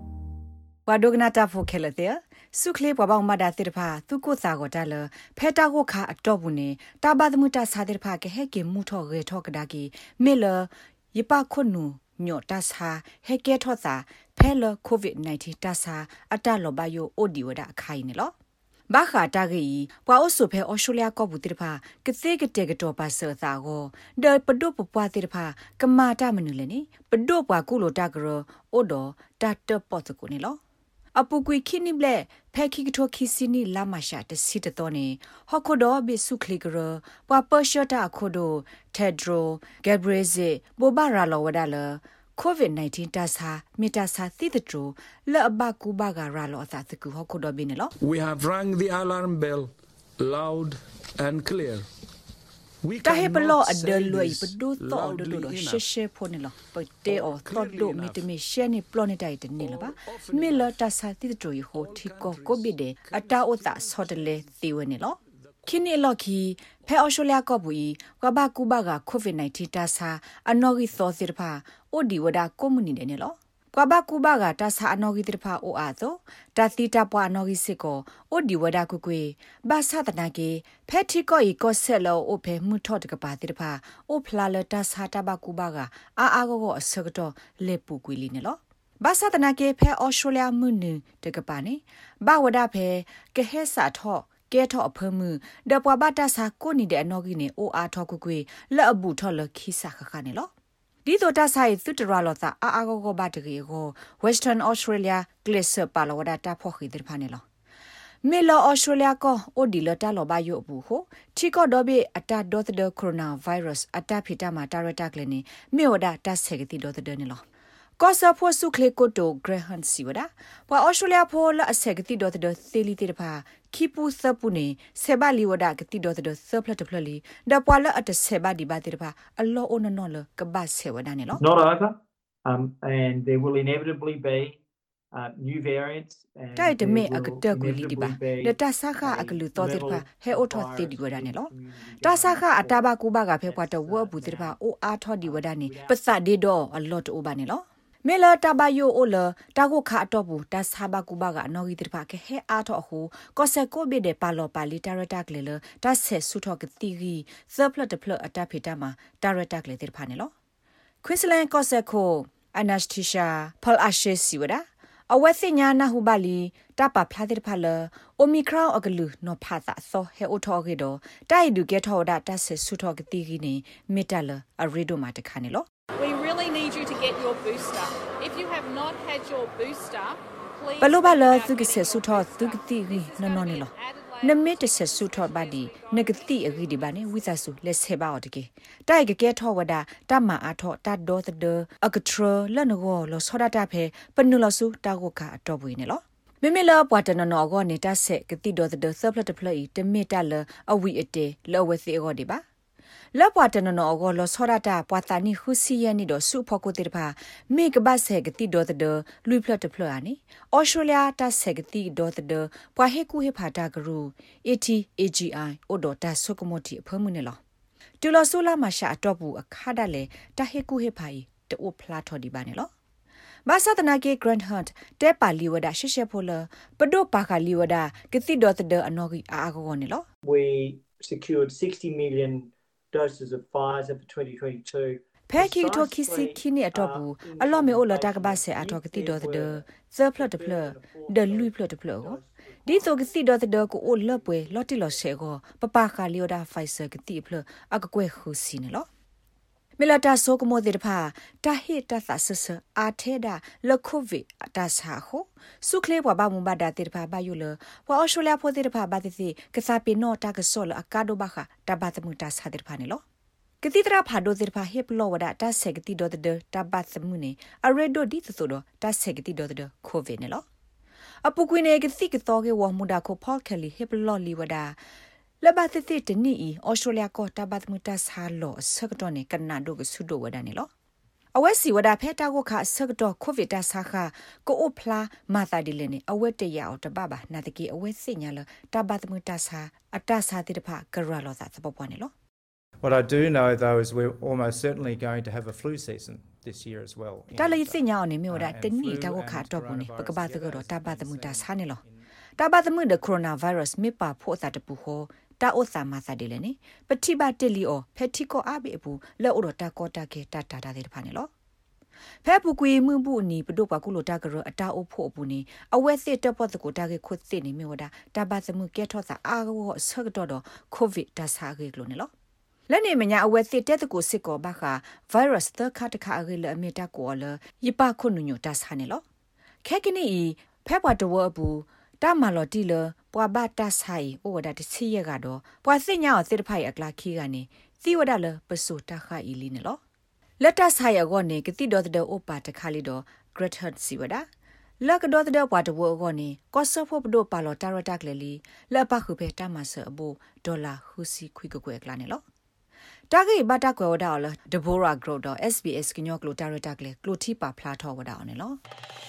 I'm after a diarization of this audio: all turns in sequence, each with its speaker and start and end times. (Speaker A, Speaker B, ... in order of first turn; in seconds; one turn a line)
Speaker A: 0.8-18.3
Speaker A: 18.9-30.6
Speaker A: 31.1-47.9
Speaker B: 48.0-51.9
Speaker B: 52.8-55.9
Speaker A: 53.0-100.5
Speaker B: 57.0-58.3
Speaker B: 59.6-60.8
Speaker B: 61.7-64.5
Speaker B: 65.4-65.9
Speaker A: 101.0-107.4
Speaker A: 108.2-117.4
Speaker A: 118.0-131.4
Speaker C: 131.4-134.6
Speaker C: 135.1-142.9
Speaker A: 136.6-160.3
Speaker C: 143.4-144.6
Speaker C: 145.2-146.1
Speaker A: 161.0-175.7
Speaker D: 176.0-187.4
Speaker A: 180.8-202.4
Speaker A: 203.1-217.4
Speaker A: 218.0-222.7
Speaker A: 223.4-230.0
Speaker C: 230.2-239.6
Speaker A: 235.3-248.9
Speaker C: 240.2-245.0
Speaker A: 249.8-263.0
Speaker A: 263.6-270.4
Speaker A: 271.2-274.8
Speaker A: 275.4-280.7
Speaker A: 281.3-292.1
Speaker E: 292.8-301.5
Speaker A: 297.4-301.8
Speaker A: 302.4-311.3
Speaker A: 312.2-322.1
Speaker A: 322.7-329.0
Speaker A: 329.6-339.8
Speaker A: 340.4-344.2
Speaker A: 344.8-352.2
Speaker A: 353.1-358.6